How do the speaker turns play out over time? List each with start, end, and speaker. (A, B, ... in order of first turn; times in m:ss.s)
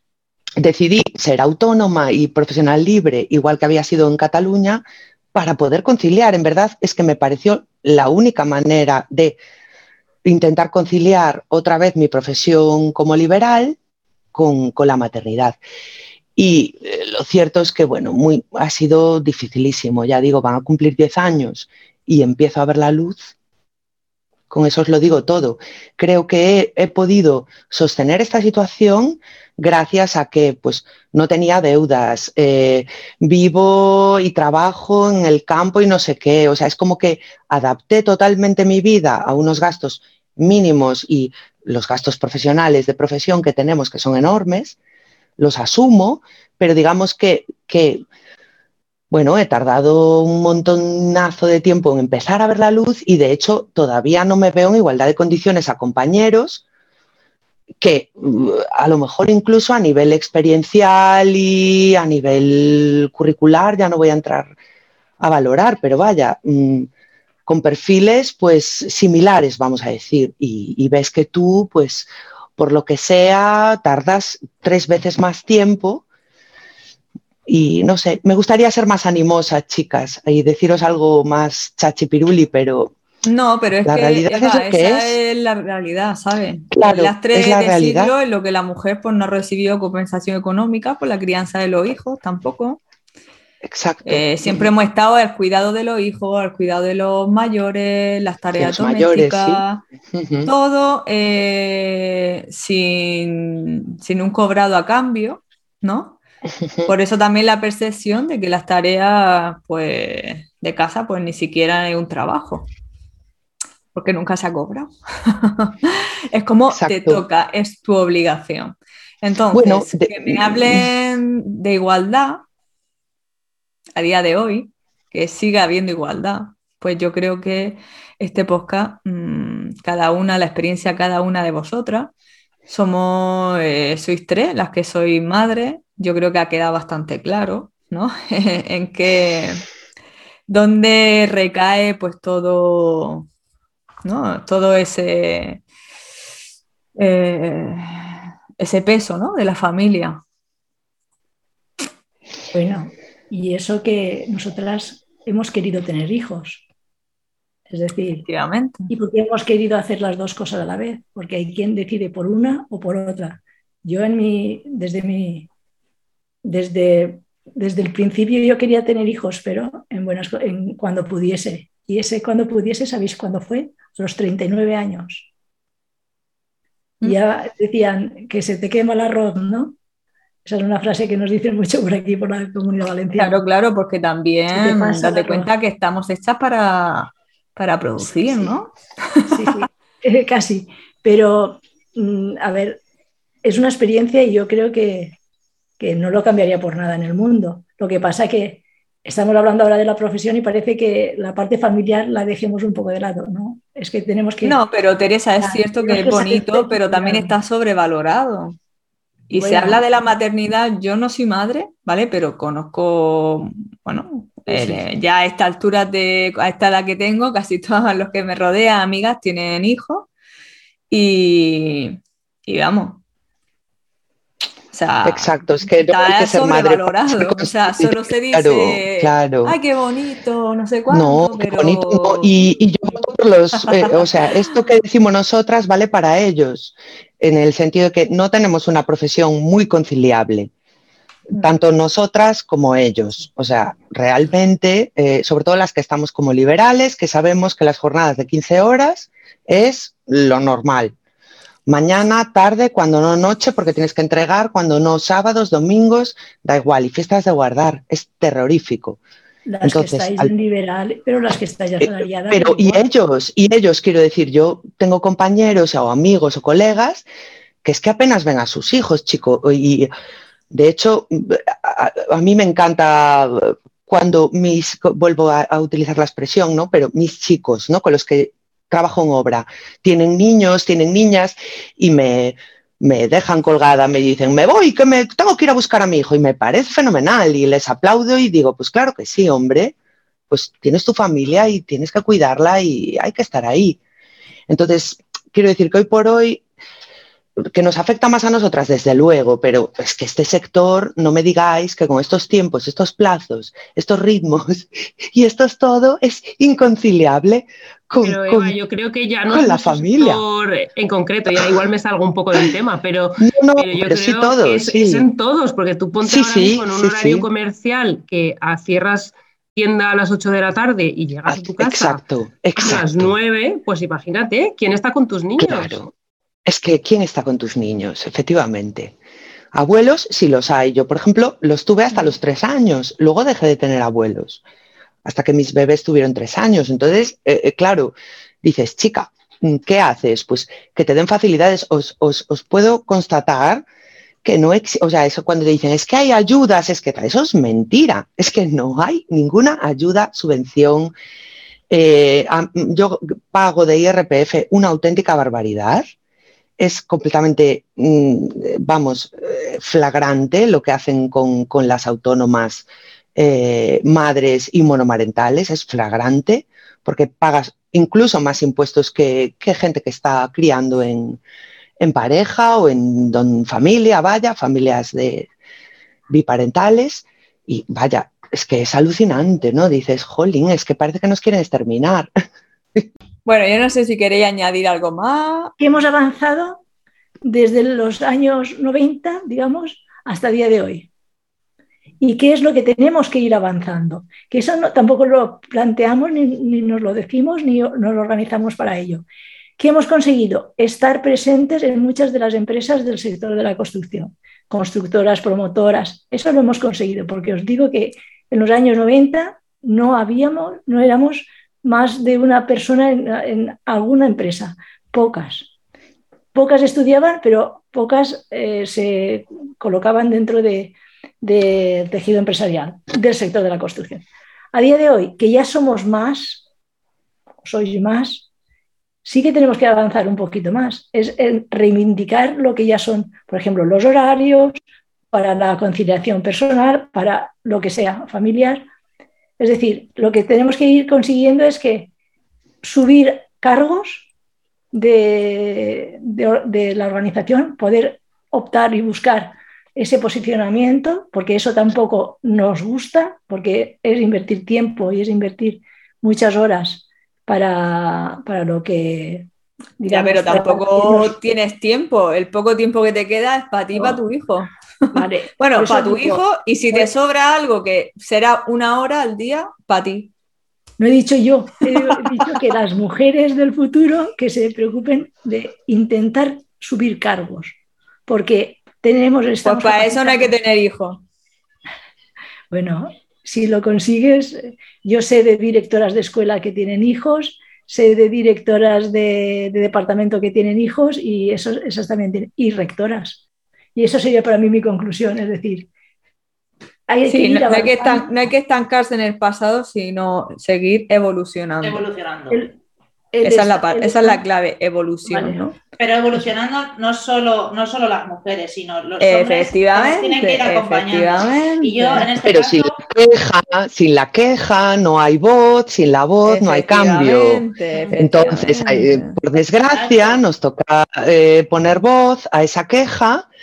0:00.6-0:04.8 A
0:05.3-0:09.4 A
0:10.2-0:13.8 A
0:14.3-0:15.6 A
0:16.4-0:23.3 A
0:24.5-0:44.8 A
0:45.4-0:48.0 A
0:49.1-0:56.6 A
0:57.8-1:04.6 A
1:05.2-1:06.9 A
1:07.5-1:16.0 A
1:17.5-1:22.9 A
1:23.3-1:32.8 B
1:23.8-1:25.2 A
1:26.7-1:28.2 A
1:33.6-1:34.7 A
1:34.1-1:39.8 B
1:38.6-1:39.6 A
1:40.1-1:40.5 A
1:40.5-1:46.2 B
1:46.7-1:46.9 A
1:46.9-1:52.7 B
1:53.9-2:02.4 B
1:56.7-1:57.2 A
1:59.5-2:00.9 A
2:04.0-2:12.1 B
2:12.7-2:19.6 B
2:20.5-2:23.3 B
2:24.0-2:25.6 B
2:27.0-2:30.2 B
2:32.5-2:36.7 C
2:37.7-2:38.3 C
2:38.2-2:38.8 B
2:38.9-2:45.5 C
2:46.4-2:55.3 C
2:57.0-2:59.8 C
3:00.4-3:03.4 C
3:03.2-3:09.5 B
3:04.5-3:05.5 C
3:08.0-3:08.6 C
3:09.3-3:12.8 C
3:13.4-3:15.2 C
3:15.8-3:24.6 C
3:24.4-3:28.6 B
3:25.4-3:27.4 C
3:29.3-3:40.1 B
3:29.3-3:29.8 C
3:34.5-3:34.8 C
3:40.9-3:43.0 B
3:44.7-3:52.3 B
3:45.0-3:49.6 A
3:50.9-4:00.5 A
4:01.3-4:10.9 A
4:11.7-4:19.0 A
4:19.5-4:22.8 C
4:19.6-4:20.3 A
4:21.8-4:27.1 A
4:27.6-4:29.9 A
4:30.5-4:49.8 A
4:50.3-4:53.8 A
4:54.5-4:56.4 A
4:57.5-5:08.6 A
5:08.0-5:22.0 D
5:09.3-5:10.2 A
5:13.2-5:15.1 A
5:16.0-5:17.3 A
5:21.3-5:23.1 A
5:22.6-5:25.8 D
5:25.4-5:25.9 A
5:26.4-5:29.0 A
5:29.5-5:34.4 A
5:35.0-5:43.6 A
5:44.2-5:50.9 A
5:51.7-5:55.9 A
5:56.6-6:11.2 A
6:11.8-6:15.3 A
6:16.1-6:22.1 A
6:23.2-6:25.5 B
6:25.6-6:26.6 C
6:27.2-6:30.9 C
6:32.0-6:39.0 C
6:39.6-6:55.5 C
6:56.3-7:06.4 C
7:07.4-7:08.3 C
7:09.0-7:14.6 C
7:15.1-7:18.6 C
7:19.4-7:21.9 C
7:22.6-7:24.1 C
7:24.7-7:39.3 C
7:39.8-7:41.2 C
7:39.9-7:50.1 B
7:43.7-7:44.0 C
7:44.9-7:46.9 C
7:50.8-7:57.6 C
7:58.1-8:00.3 C
7:59.4-8:01.0 B
8:02.5-8:13.2 C
8:13.8-8:15.7 C
8:16.9-8:18.1 C
8:17.1-8:21.8 B
8:21.6-8:22.5 E
8:22.3-8:22.6 C
8:23.1-8:24.2 C
8:23.2-8:25.6 B
8:25.0-8:25.4 C
8:25.8-8:32.8 E
8:29.0-8:32.1 B
8:32.2-8:37.4 A
8:36.2-8:39.2 B
8:37.7-8:38.2 E
8:38.0-8:43.3 A
8:39.4-8:40.2 E